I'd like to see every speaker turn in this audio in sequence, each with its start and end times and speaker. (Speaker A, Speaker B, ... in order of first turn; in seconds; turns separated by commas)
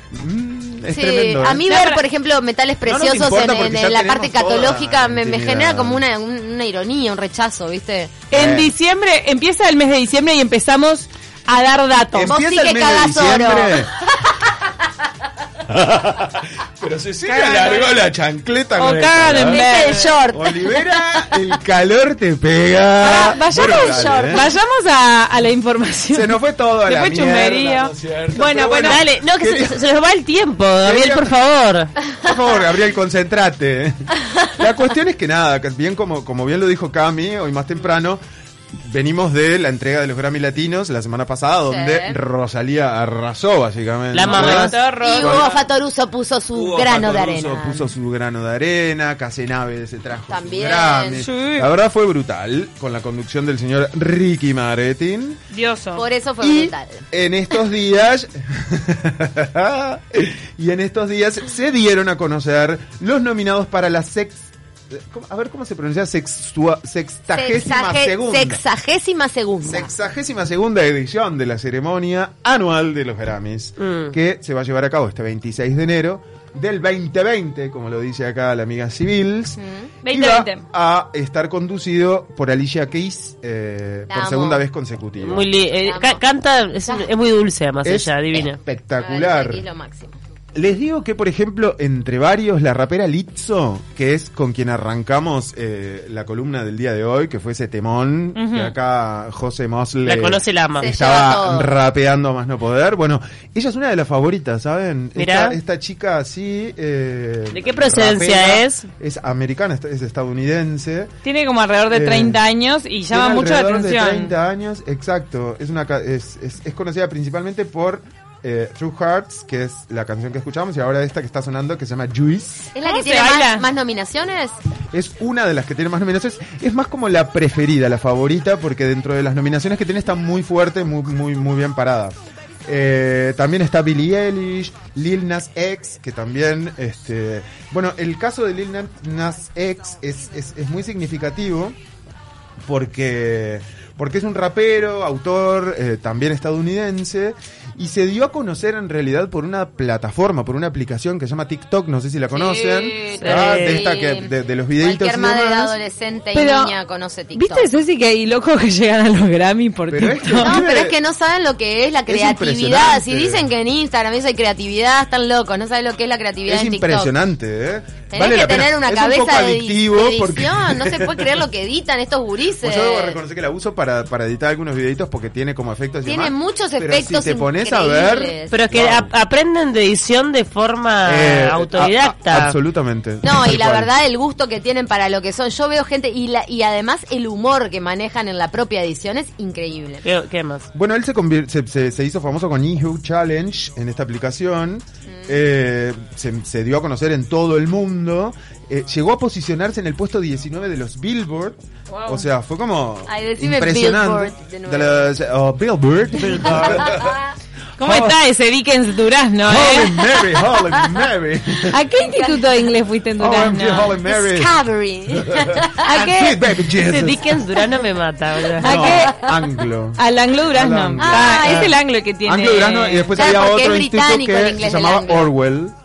Speaker A: 0.1-1.6, Speaker B: 0.9-8.2, Speaker C: 1.6-2.0, Speaker A: 2.8-6.0, Speaker C: 8.3-12.3, Speaker A: 8.3-8.7, Speaker A: 12.1-13.9, Speaker B: 12.2-14.3, Speaker A: 15.7-19.6, Speaker C: 17.2-18.0, Speaker C: 18.8-20.1, Speaker B: 19.5-21.5, Speaker A: 20.3-24.5, Speaker C: 23.0-29.0, Speaker A: 26.1-29.9, Speaker D: 28.8-31.9, Speaker A: 30.8-31.4, Speaker A: 32.2-38.2, Speaker A: 38.8-45.5, Speaker B: 41.7-42.2, Speaker D: 44.1-44.8, Speaker C: 44.3-45.6, Speaker B: 45.0-47.9, Speaker A: 46.5-55.4, Speaker B: 50.3-51.2, Speaker C: 51.2-51.7, Speaker C: 55.5-56.0, Speaker B: 55.9-57.0, Speaker A: 56.4-68.6, Speaker B: 67.3-69.9, Speaker A: 69.6-85.5, Speaker D: 73.8-74.1, Speaker B: 79.6-79.9, Speaker C: 80.0-80.6, Speaker B: 84.1-84.6, Speaker D: 85.2-88.6, Speaker B: 85.8-86.2, Speaker A: 87.8-89.6, Speaker B: 89.0-90.2, Speaker A: 90.5-111.1, Speaker C: 98.3-98.7, Speaker D: 100.0-101.2, Speaker B: 100.8-101.8, Speaker D: 105.2-105.5, Speaker D: 107.5-108.9, Speaker C: 111.2-114.3, Speaker A: 111.9-112.4, Speaker A: 113.1-122.7, Speaker B: 122.7-124.5, Speaker C: 122.8-123.7, Speaker A: 124.9-141.8, Speaker A: 142.7-155.7, Speaker B: 152.3-157.7, Speaker D: 153.2-153.9, Speaker C: 156.3-156.7, Speaker C: 157.3-160.6, Speaker A: 159.9-161.0, Speaker B: 160.4-167.1, Speaker A: 162.1-163.5, Speaker A: 166.5-171.4, Speaker B: 168.1-173.2, Speaker A: 172.6-179.1, Speaker B: 176.0-178.6, Speaker D: 178.5-182.6, Speaker A: 181.0-183.9, Speaker B: 183.2-190.0, Speaker D: 190.0-190.7, Speaker A: 190.7-207.2, Speaker B: 195.1-195.4, Speaker C: 201.9-202.2, Speaker B: 203.1-205.2, Speaker B: 206.2-207.2, Speaker C: 207.8-210.0, Speaker A: 207.8-208.2, Speaker A: 209.4-211.8, Speaker B: 210.1-210.5, Speaker C: 211.6-214.0, Speaker B: 212.0-212.4, Speaker A: 213.2-214.6, Speaker B: 214.0-216.2, Speaker A: 215.2-217.4, Speaker D: 216.0-218.9, Speaker A: 218.6-225.7, Speaker C: 218.6-219.2, Speaker B: 218.7-219.5, Speaker C: 219.9-223.1, Speaker B: 221.0-221.7, Speaker B: 223.1-225.3